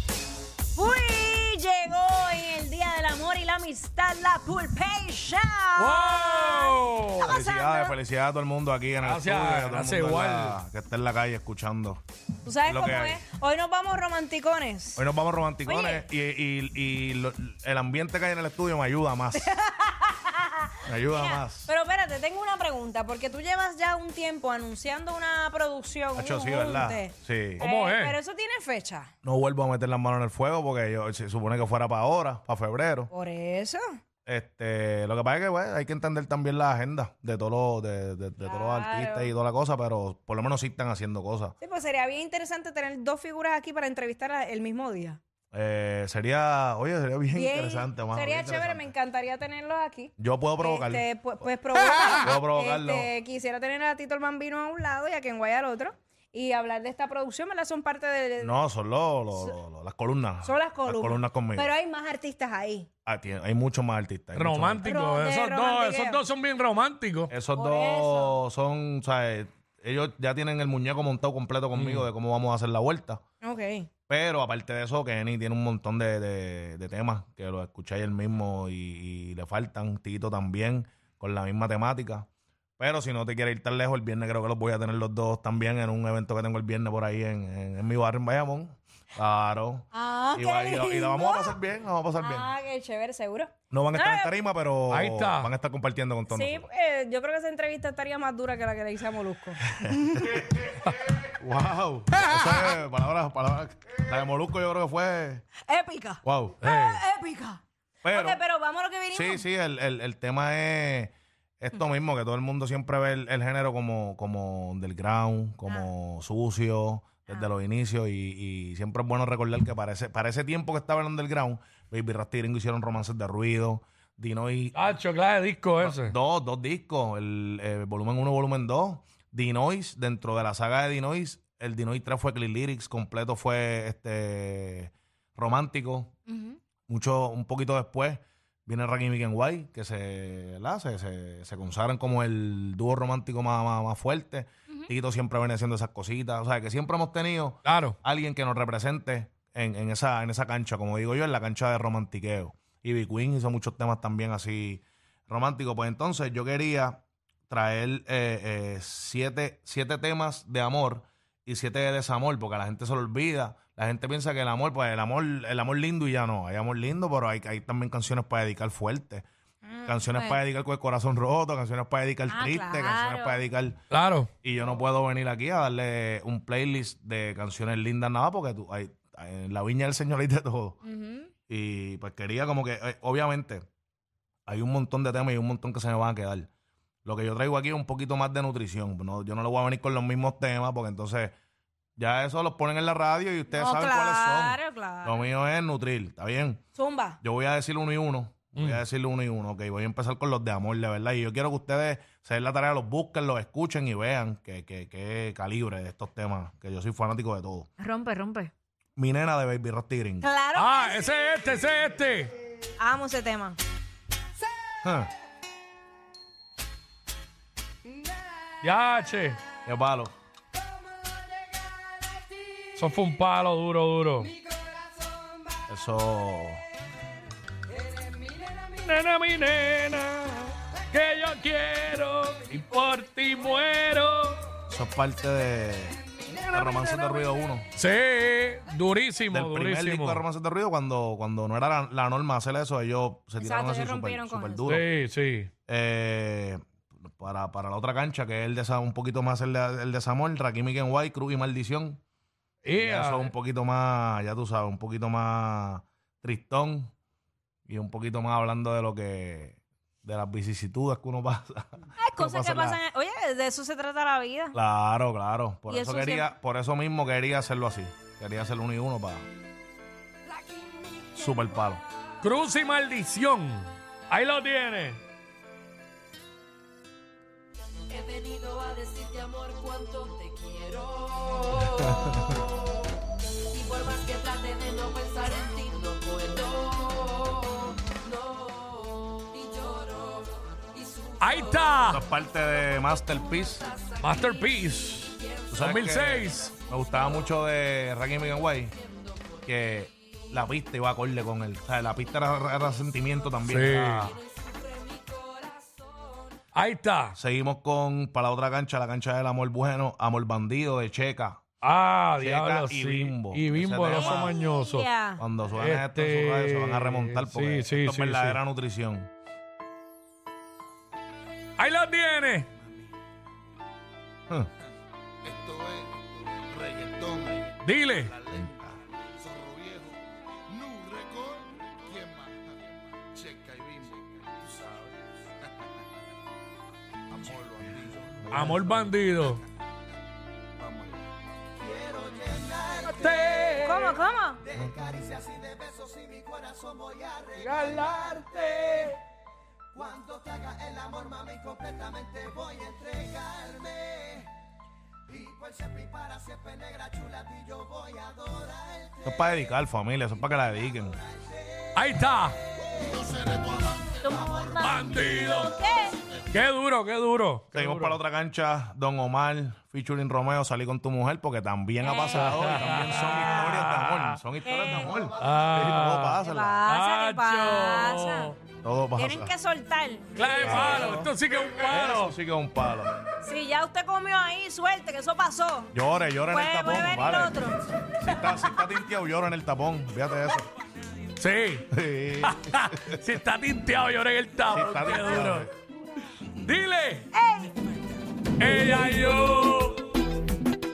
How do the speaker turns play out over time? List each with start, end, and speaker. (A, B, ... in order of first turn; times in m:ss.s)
0:00.8-0:08.0 A
0:05.8-0:07.3 B
0:07.2-0:12.0 C
0:09.0-0:10.6 B
0:12.4-0:15.0 A
0:12.6-0:13.2 C
0:15.0-0:19.5 C
0:15.6-0:16.0 A
0:19.3-0:29.1 A
0:20.8-0:21.7 C
0:26.2-0:27.6 C
0:27.6-0:28.2 B
0:29.2-0:33.1 C
0:33.1-0:33.8 A
0:34.3-0:41.6 C
0:38.4-0:39.3 A
0:41.6-0:45.2 A
0:45.5-0:48.9 C
0:47.3-0:58.6 A
0:50.2-0:51.0 C
0:52.1-0:53.1 C
0:58.4-1:01.7 C
1:00.4-1:02.9 A
1:03.1-1:04.9 C
1:04.3-1:07.3 B
1:04.8-1:06.2 A
1:07.3-1:13.2 C
1:07.5-1:08.3 A
1:11.7-1:12.1 B
1:13.4-1:13.9 A
1:14.1-1:22.2 C
1:22.8-1:32.5 C
1:29.9-1:31.6 A
1:32.2-1:34.3 A
1:33.7-1:36.7 C
1:34.9-1:35.5 B
1:36.3-1:40.4 A
1:39.7-1:45.4 C
1:45.6-1:49.4 A
1:46.2-1:46.6 C
1:46.6-1:47.0 B
1:48.0-1:48.4 C
1:49.1-2:04.8 C
2:04.8-2:06.1 B
2:05.8-2:16.1 C
2:16.3-2:16.6 A
2:16.9-2:49.2 C
2:27.6-2:28.0 B
2:49.6-2:50.4 A
2:49.8-2:53.8 C
2:52.3-2:53.4 A
2:53.9-2:54.3 B
2:54.4-3:00.8 C
3:00.8-3:01.3 A
3:01.5-3:03.6 C
3:04.5-3:06.5 C
3:07.0-3:11.3 C
3:12.0-3:16.6 C
3:13.5-3:15.2 A
3:16.8-3:17.2 A
3:17.2-3:27.7 C
3:18.6-3:18.8 B
3:27.8-3:28.5 A
3:29.0-3:30.3 C
3:30.2-3:31.1 A
3:30.6-3:32.3 B
3:32.8-3:33.6 A
3:34.8-3:35.1 C
3:38.6-3:39.4 B
3:39.6-3:40.1 C
3:42.7-3:44.3 B
3:45.7-3:46.6 C
3:48.6-3:54.4 B
3:54.7-3:57.7 C
3:56.4-3:56.8 B
3:57.8-4:00.2 B
3:59.3-4:04.9 C
4:03.4-4:04.7 A
4:04.7-4:05.5 B
4:05.7-4:12.0 C
4:12.6-4:13.3 B
4:12.8-4:16.9 C
4:17.7-4:22.8 C
4:22.0-4:24.6 A
4:24.5-4:29.2 C
4:25.7-4:26.3 A
4:31.1-4:31.8 C
4:32.2-4:35.0 B
4:38.4-4:41.3 D
4:41.7-4:42.1 C
4:43.7-4:45.1 D
4:45.9-4:47.5 D
4:48.8-4:49.9 D
4:51.2-4:52.0 B
4:51.9-4:53.7 C
4:54.0-4:56.6 B
4:55.5-4:58.8 C
4:59.4-5:04.2 C
5:03.4-5:04.2 B
5:04.8-5:05.4 D
5:06.5-5:07.2 B
5:07.1-5:11.4 C
5:11.6-5:14.9 B
5:12.2-5:14.4 C
5:13.9-5:15.2 A
5:15.2-5:19.1 C
5:15.6-5:18.4 B
5:21.6-5:22.5 B
5:25.2-5:25.9 E
5:26.5-5:27.5 E
5:27.6-5:28.2 B
5:28.3-5:28.7 C
5:29.2-5:30.0 E
5:30.5-5:32.4 E
5:33.1-5:34.8 E
5:37.1-5:38.4 E
5:37.9-5:38.9 C
5:38.3-5:39.4 B
5:41.6-5:43.6 E
5:42.8-5:44.0 B
5:43.6-5:44.4 A
5:44.5-5:48.2 E
5:44.6-5:45.1 C
5:47.4-5:49.0 B
5:49.7-5:54.3 E
5:55.1-5:59.0 E
5:59.0-6:01.0 C
6:01.8-6:02.4 B
6:02.7-6:03.6 E
6:04.0-6:06.0 A
6:04.4-6:04.8 E
6:04.5-6:05.6 B
6:06.3-6:08.0 B
6:07.5-6:16.6 C
6:11.8-6:13.7 A
6:12.1-6:14.2 B
6:14.4-6:15.1 A
6:15.1-6:18.4 B
6:16.2-6:18.3 A
6:18.6-6:19.3 C
6:19.0-6:21.1 A
6:20.2-6:22.1 B
6:20.4-6:22.9 C
6:23.2-6:25.7 A
6:25.7-6:30.5 C
6:26.3-6:28.2 A
6:31.2-6:31.7 B
6:31.7-6:33.0 C
6:32.2-6:35.5 B
6:34.5-6:35.5 C
6:36.4-6:37.1 B
6:37.1-6:37.7 A
6:38.4-6:39.8 B